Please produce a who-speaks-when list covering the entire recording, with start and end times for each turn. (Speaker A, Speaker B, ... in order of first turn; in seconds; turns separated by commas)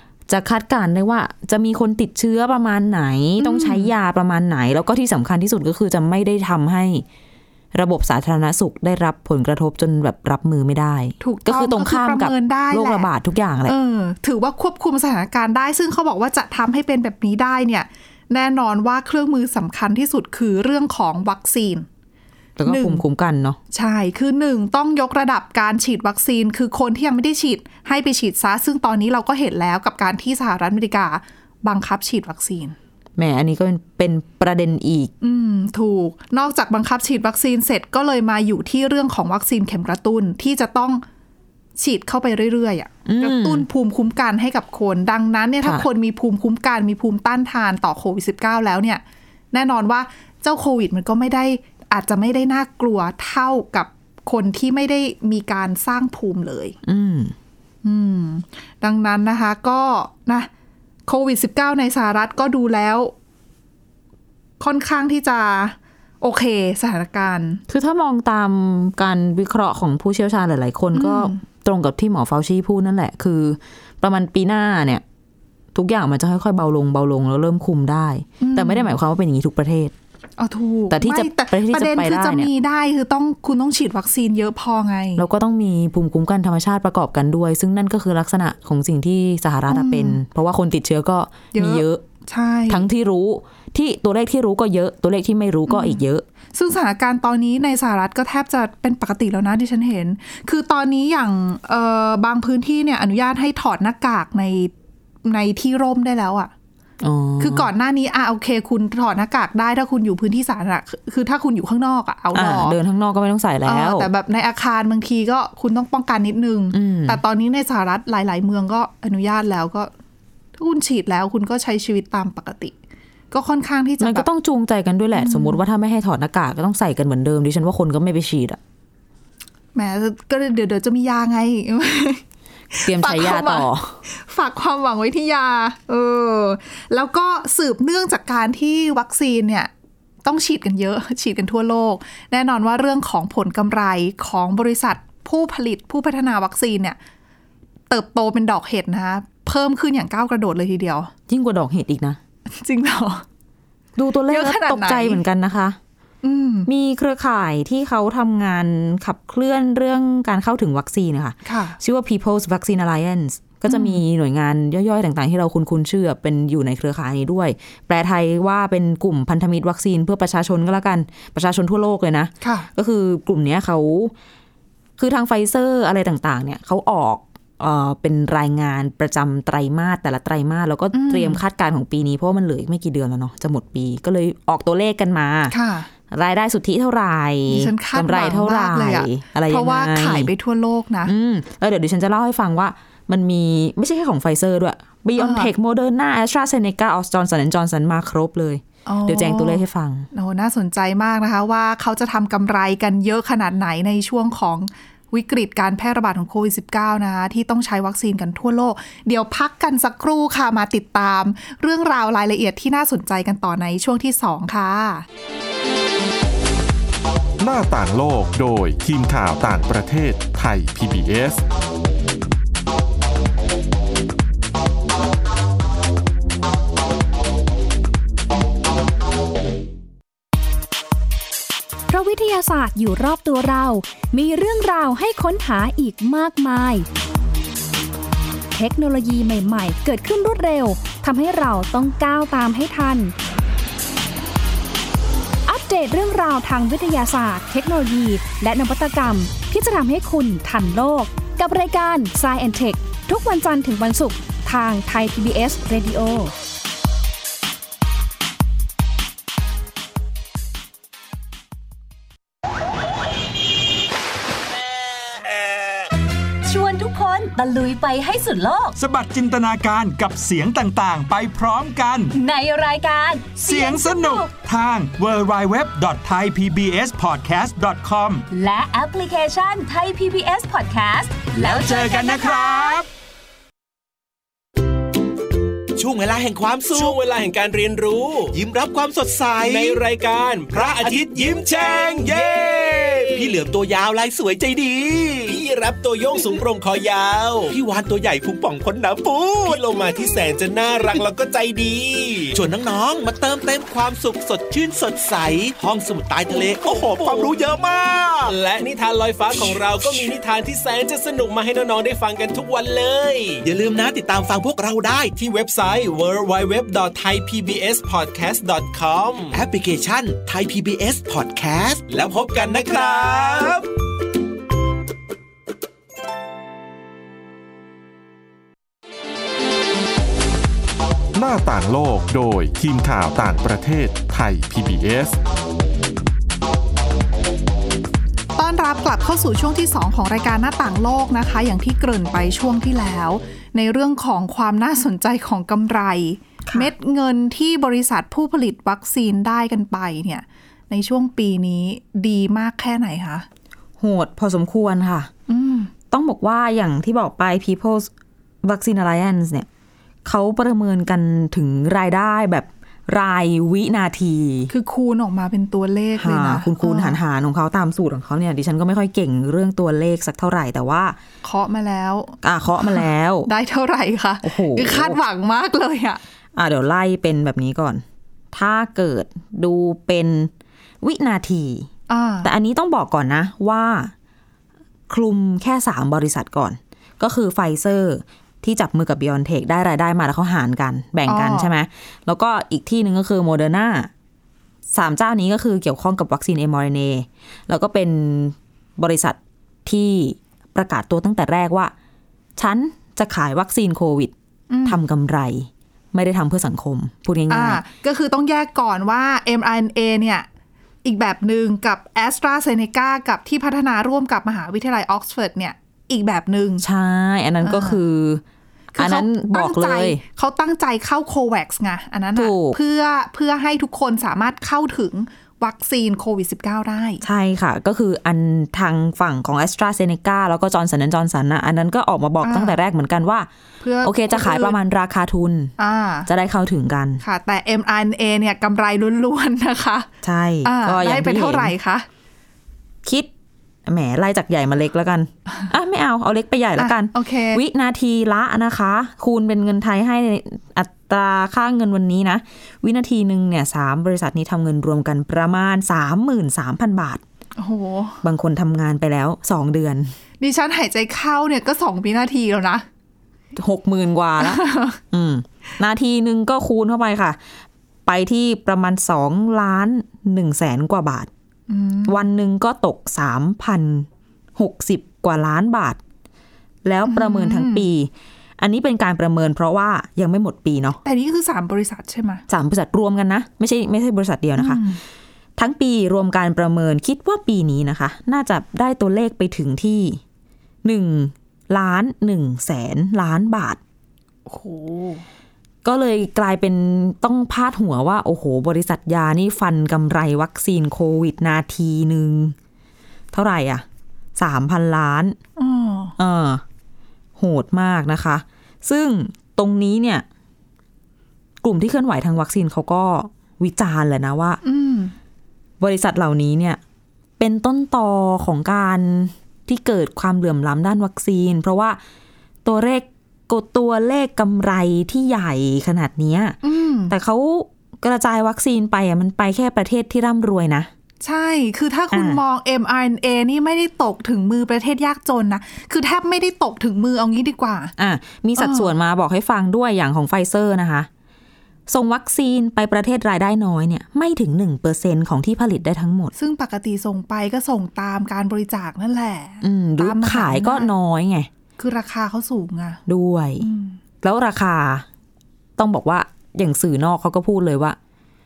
Speaker A: 0.3-7.0, Speaker B: 3.4-3.9, Speaker A: 7.7-13.8, Speaker B: 11.2-13.1, Speaker B: 13.7-21.9, Speaker A: 22.6-23.6, Speaker B: 22.6-23.0, Speaker B: 23.7-32.8, Speaker A: 33.1-35.1, Speaker B: 35.2-41.0, Speaker B: 41.8-56.8, Speaker A: 43.1-43.6, Speaker A: 56.8-57.3, Speaker B: 57.8-60.5, Speaker B: 61.1-63.1, Speaker B: 64.6-67.6, Speaker A: 67.7-75.0, Speaker B: 70.9-71.4, Speaker A: 75.7-79.9, Speaker B: 78.4-78.9, Speaker B: 80.4-85.2, Speaker A: 80.9-82.5, Speaker A: 85.2-92.0, Speaker B: 89.7-90.2, Speaker B: 91.5-92.9, Speaker A: 92.7-96.2, Speaker B: 95.7-96.0, Speaker B: 96.5-104.7, Speaker B: 105.2-106.5, Speaker A: 107.0-107.7, Speaker B: 107.4-112.8, Speaker A: 112.3-114.1, Speaker B: 113.7-119.9, Speaker A: 116.7-117.2, Speaker B: 120.6-122.7, Speaker B: 123.3-124.3, Speaker A: 124.0-128.6, Speaker B: 125.1-125.6, Speaker B: 129.8-139.7, Speaker A: 132.8-134.0, Speaker B: 140.2-147.0, Speaker B: 147.9-151.1, Speaker A: 151.3-152.2, Speaker B: 152.6-153.2, Speaker A: 154.0-155.8, Speaker B: 154.3-155.2, Speaker B: 156.2-156.7, Speaker A: 156.7-174.1, Speaker B: 161.4-161.8, Speaker B: 163.7-164.0, Speaker B: 172.4-172.7, Speaker A: 175.0-185.6, Speaker B: 180.9-181.4, Speaker B: 185.5-185.9, Speaker A: 186.1-190.3, Speaker B: 187.5-191.1, Speaker A: 191.1-200.1, Speaker B: 195.2-195.5, Speaker B: 198.9-215.1, Speaker C: 217.4-221.4, Speaker D: 231.9-236.9, Speaker D: 238.5-243.1, Speaker D: 245.5-256.3, Speaker E: 266.4-268.8, Speaker F: 268.8-272.1, Speaker E: 272.1-274.3, Speaker F: 273.4-278.2, Speaker E: 278.3-282.8, Speaker F: 281.4-282.9, Speaker G: 285.8-287.0, Speaker H: 286.7-288.4, Speaker G: 288.3-289.8, Speaker H: 289.4-293.3, Speaker G: 290.5-295.4, Speaker H: 295.3-297.6, Speaker G: 297.5-300.1, Speaker H: 299.4-302.4, Speaker G: 302.4-308.3, Speaker H: 306.4-307.4, Speaker H: 308.3-313.4, Speaker G: 309.4-310.1, Speaker G: 313.4-315.1, Speaker H: 315.1-319.4, Speaker G: 319.3-323.6, Speaker H: 321.9-323.6, Speaker C: 331.1-335.2, Speaker B: 338.4-353.2, Speaker A: 346.5-346.7, Speaker A: 353.8-355.1, Speaker B: 355.3-355.7, Speaker A: 355.9-357.9, Speaker A: 358.4-359.5, Speaker A: 360.1-364.5, Speaker B: 364.5-367.0, Speaker A: 366.0-371.0, Speaker B: 371.2-376.0, Speaker A: 372.2-373.3, Speaker A: 374.2-375.0, Speaker A: 376.4-380.3, Speaker A: 380.8-381.7, Speaker B: 381.9-382.3, Speaker A: 382.2-383.9, Speaker A: 384.9-393.9, Speaker B: 391.1-391.5, Speaker A: 394.7-401.7, Speaker A: 402.4-404.1, Speaker B: 404.5-404.8, Speaker A: 404.6-407.6, Speaker B: 407.3-410.3, Speaker B: 410.8-416.6, Speaker A: 416.6-418.2, Speaker B: 417.4-417.8, Speaker B: 418.8-427.0, Speaker A: 418.8-420.0, Speaker A: 422.1-422.6, Speaker A: 427.0-433.3, Speaker B: 432.2-432.6, Speaker B: 433.6-434.6, Speaker A: 433.8-435.5, Speaker B: 435.6-436.1, Speaker A: 436.1-437.0, Speaker B: 437.0-439.9, Speaker A: 440.0-441.5, Speaker B: 440.4-441.9, Speaker A: 442.8-443.1, Speaker A: 443.6-457.0, Speaker B: 446.6-447.4, Speaker B: 457.4-458.0, Speaker A: 458.0-459.9, Speaker B: 460.2-462.6, Speaker A: 463.4-467.2, Speaker B: 464.2-464.8, Speaker A: 467.9-471.1, Speaker B: 471.5-472.0, Speaker A: 471.9-475.8, Speaker A: 476.6-480.8, Speaker B: 476.9-477.7, Speaker B: 480.8-482.2, Speaker A: 482.3-484.6, Speaker B: 484.4-484.8, Speaker A: 485.4-490.0, Speaker A: 490.6-493.6, Speaker B: 494.3-495.1, Speaker A: 495.6-502.4, Speaker A: 503.1-503.6, Speaker A: 504.1-505.2, Speaker B: 505.4-505.9, Speaker A: 506.0-506.4, Speaker A: 507.2-510.1, Speaker A: 511.4-514.4, Speaker B: 514.4-514.9, Speaker A: 515.6-516.6, Speaker A: 517.2-521.8, Speaker A: 522.4-526.4, Speaker B: 526.4-526.9, Speaker A: 526.9-530.7, Speaker B: 531.0-537.7, Speaker A: 531.9-532.2, Speaker A: 537.8-540.9, Speaker B: 538.4-538.7, Speaker A: 541.7-546.1, Speaker B: 546.1-550.7, Speaker A: 549.4-551.3, Speaker B: 551.6-552.8, Speaker A: 552.9-553.5, Speaker B: 553.4-553.8, Speaker A: 554.0-554.9, Speaker A: 555.6-557.8